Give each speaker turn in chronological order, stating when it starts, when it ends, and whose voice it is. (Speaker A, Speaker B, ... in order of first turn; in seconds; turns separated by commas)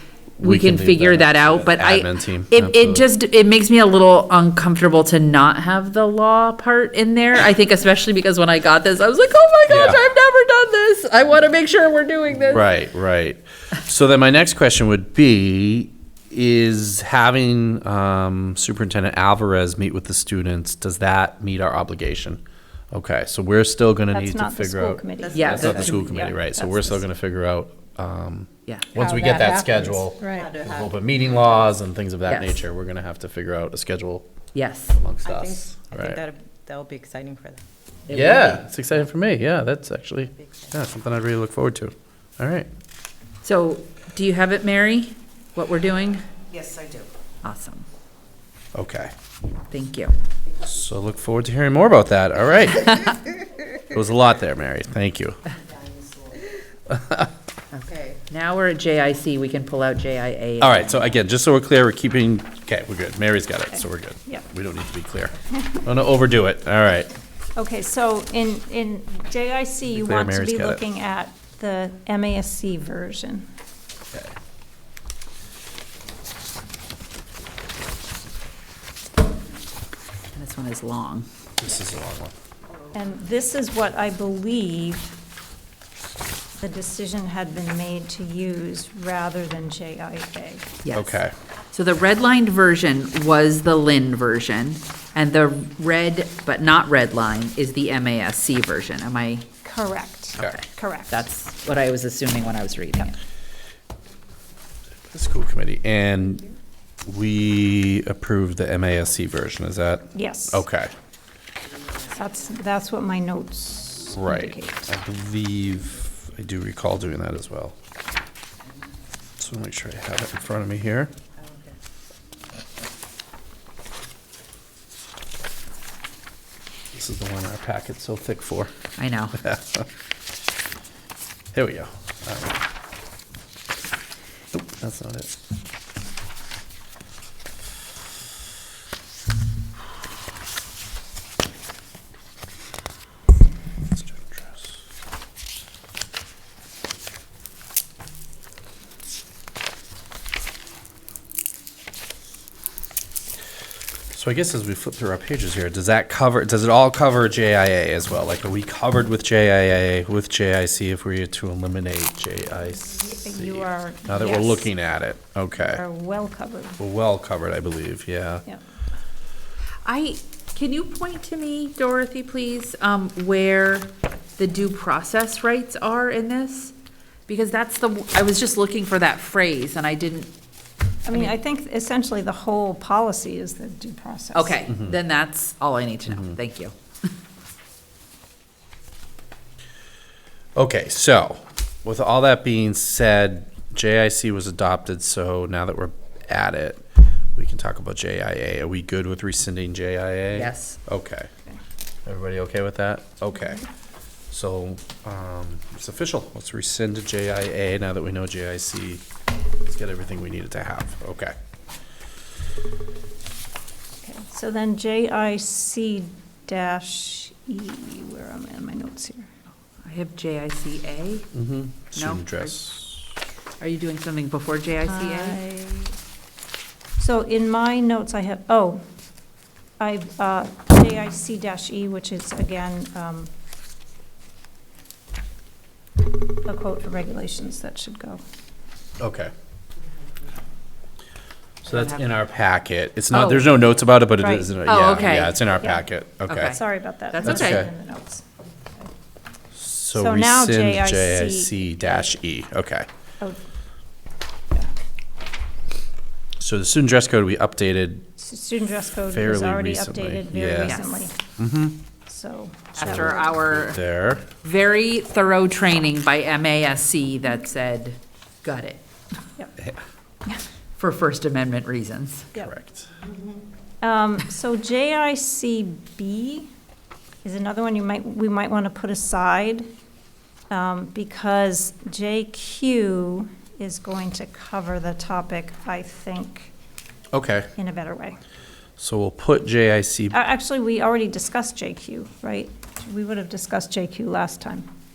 Speaker A: 0.4-12.7, Speaker B: 0.4-3.1, Speaker B: 9.7-10.0, Speaker B: 12.5-22.4, Speaker B: 22.9-34.3, Speaker C: 24.1-27.0, Speaker A: 25.4-25.9, Speaker D: 25.4-26.0, Speaker A: 28.7-29.2, Speaker D: 29.0-30.9, Speaker A: 32.3-32.6, Speaker A: 34.5-35.0, Speaker B: 34.9-36.2, Speaker D: 35.2-37.6, Speaker A: 38.1-38.6, Speaker B: 38.1-42.7, Speaker A: 43.4-46.2, Speaker D: 46.5-47.1, Speaker A: 47.4-47.9, Speaker B: 48.7-49.1, Speaker A: 49.7-50.1, Speaker B: 50.6-53.1, Speaker B: 53.8-55.4, Speaker B: 56.9-57.3, Speaker A: 57.9-61.2, Speaker B: 60.6-67.1, Speaker C: 63.7-64.5, Speaker C: 67.6-73.5, Speaker B: 69.9-70.8, Speaker A: 80.3-81.3, Speaker B: 81.6-82.3, Speaker C: 82.9-85.1, Speaker C: 86.6-90.8, Speaker A: 90.8-91.2, Speaker B: 90.9-91.3, Speaker A: 91.7-99.5, Speaker C: 99.6-101.2, Speaker A: 100.4-103.2, Speaker B: 105.1-106.4, Speaker B: 107.1-110.9, Speaker C: 110.1-110.6, Speaker C: 112.0-114.9, Speaker B: 114.1-117.7, Speaker B: 119.4-121.1, Speaker B: 126.9-128.7, Speaker A: 129.0-129.4, Speaker B: 129.4-129.9, Speaker B: 131.5-132.6, Speaker B: 134.5-135.3, Speaker B: 143.9-144.7, Speaker B: 154.1-165.8, Speaker C: 163.1-164.7, Speaker C: 165.7-166.8, Speaker B: 166.8-168.4, Speaker A: 169.8-176.7, Speaker A: 177.3-180.3, Speaker C: 181.1-184.7, Speaker A: 184.3-186.7, Speaker B: 190.6-201.3, Speaker A: 200.3-200.8, Speaker B: 202.1-203.7, Speaker B: 204.3-209.0, Speaker B: 209.6-211.3, Speaker C: 214.0-219.3, Speaker A: 219.8-221.3, Speaker B: 221.3-223.1, Speaker A: 221.9-222.6, Speaker A: 223.6-225.4, Speaker C: 224.9-225.9, Speaker C: 227.0-228.8, Speaker C: 229.8-233.3, Speaker C: 236.5-238.2, Speaker B: 239.0-239.3, Speaker B: 241.6-246.6, Speaker A: 241.7-242.1, Speaker A: 243.1-243.5, Speaker C: 244.2-244.5, Speaker A: 244.7-245.4, Speaker C: 245.6-245.9, Speaker A: 246.3-246.6, Speaker C: 246.4-248.2, Speaker A: 247.1-247.7, Speaker B: 247.2-247.7, Speaker B: 249.6-252.9, Speaker C: 249.9-251.5, Speaker B: 256.4-258.1, Speaker C: 258.2-261.2, Speaker B: 259.1-260.8, Speaker A: 260.6-261.1, Speaker B: 261.4-261.8, Speaker C: 262.1-263.3, Speaker A: 262.8-263.8, Speaker B: 262.8-264.3, Speaker A: 264.4-268.8, Speaker A: 270.8-272.3, Speaker B: 272.4-272.9, Speaker C: 273.8-276.5, Speaker C: 277.2-279.7, Speaker C: 280.5-286.5, Speaker B: 287.1-287.5, Speaker C: 287.6-288.2, Speaker B: 288.8-290.2, Speaker C: 290.1-294.7